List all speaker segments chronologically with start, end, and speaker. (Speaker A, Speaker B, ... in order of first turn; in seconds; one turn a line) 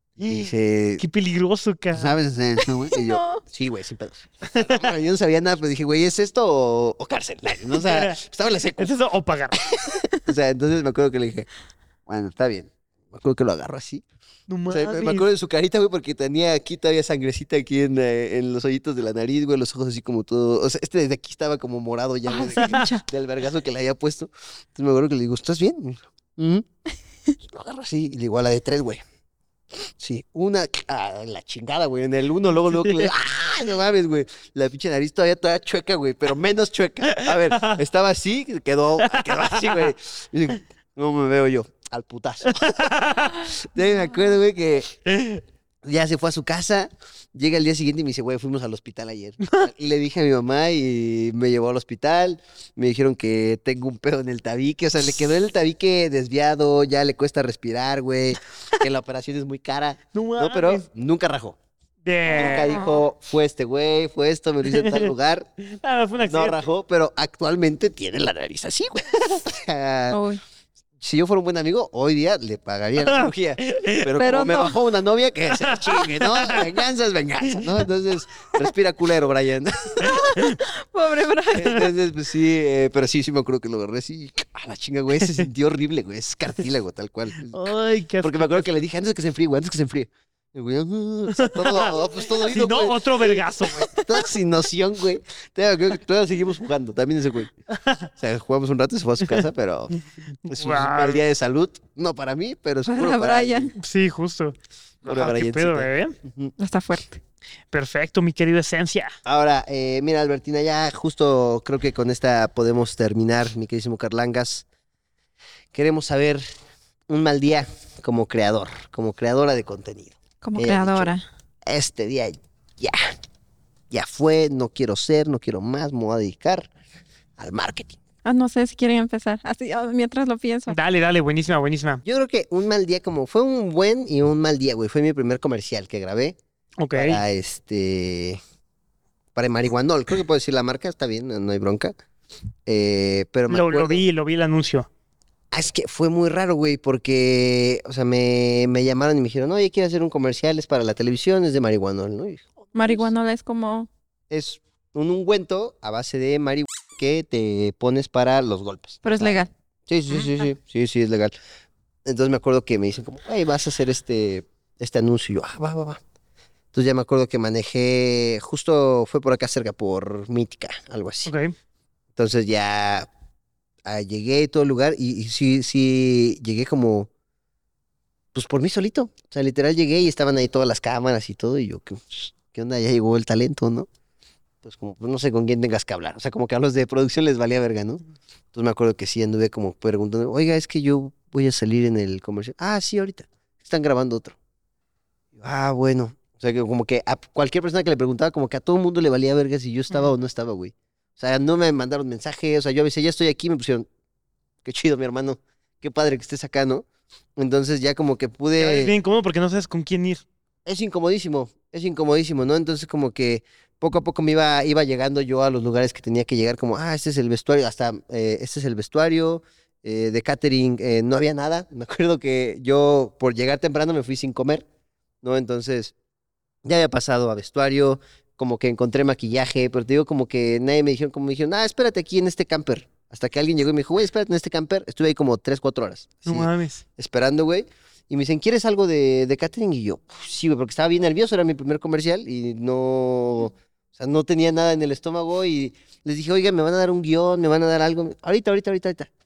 Speaker A: 0.2-1.0
Speaker B: 0.2-2.1
Speaker A: 1.9-8.9
Speaker C: 2.6-3.4
Speaker B: 4.5-4.9
Speaker B: 7.7-8.2
Speaker B: 8.8-9.6
Speaker A: 9.5-11.5
Speaker A: 12.1-14.0
Speaker B: 14.5-15.3
Speaker A: 14.7-26.6
Speaker C: 22.2-23.0
Speaker B: 22.6-22.9
Speaker A: 27.4-29.0
Speaker A: 29.7-44.9
Speaker B: 32.7-33.1
Speaker B: 37.1-37.8
Speaker B: 39.0-39.9
Speaker B: 42.5-43.5
Speaker B: 45.0-45.4
Speaker A: 45.8-61.5
Speaker B: 49.4-49.7
Speaker B: 60.1-60.9
Speaker B: 62.0-62.8
Speaker C: 62.3-63.0
Speaker A: 62.3-65.5
Speaker B: 64.7-66.6
Speaker A: 66.3-70.2
Speaker C: 70.1-70.4
Speaker A: 71.0-80.2
Speaker B: 73.0-74.1
Speaker C: 74.2-74.8
Speaker B: 75.5-76.6
Speaker C: 80.0-81.9
Speaker B: 80.0-80.6
Speaker A: 81.5-87.6
Speaker B: 85.2-85.5
Speaker B: 87.4-88.6
Speaker A: 88.2-97.5
Speaker B: 91.3-94.2
Speaker B: 97.7-98.1
Speaker A: 98.2-99.9
Speaker A: 100.5-103.7
Speaker B: 100.5-101.2
Speaker C: 102.8-103.7
Speaker B: 103.7-106.2
Speaker A: 105.0-106.5
Speaker C: 106.6-107.2
Speaker B: 107.7-109.1
Speaker A: 109.2-114.7
Speaker A: 115.7-116.5
Speaker A: 117.1-121.1
Speaker C: 120.4-121.2
Speaker A: 121.7-123.1
Speaker A: 123.9-126.7
Speaker A: 127.4-128.0
Speaker C: 128.2-130.8
Speaker B: 130.7-132.0
Speaker A: 132.0-136.4
Speaker B: 136.8-137.2
Speaker A: 136.9-138.4
Speaker A: 139.3-141.9
Speaker A: 142.7-144.0
Speaker B: 143.5-144.9
Speaker A: 145.5-153.1
Speaker C: 152.7-153.9
Speaker A: 154.3-161.3
Speaker C: 159.0-159.5
Speaker C: 160.2-160.4
Speaker A: 162.0-166.0
Speaker A: 166.7-171.3
Speaker B: 171.2-171.5
Speaker A: 172.2-173.1
Speaker A: 173.8-177.1
Speaker A: 178.3-183.9
Speaker A: 184.6-188.0
Speaker A: 188.5-194.3
Speaker A: 195.3-203.9
Speaker A: 204.6-206.8
Speaker A: 207.4-208.9
Speaker B: 208.6-210.2
Speaker A: 210.7-224.6
Speaker A: 225.2-225.9
Speaker A: 226.6-249.1
Speaker B: 236.2-236.8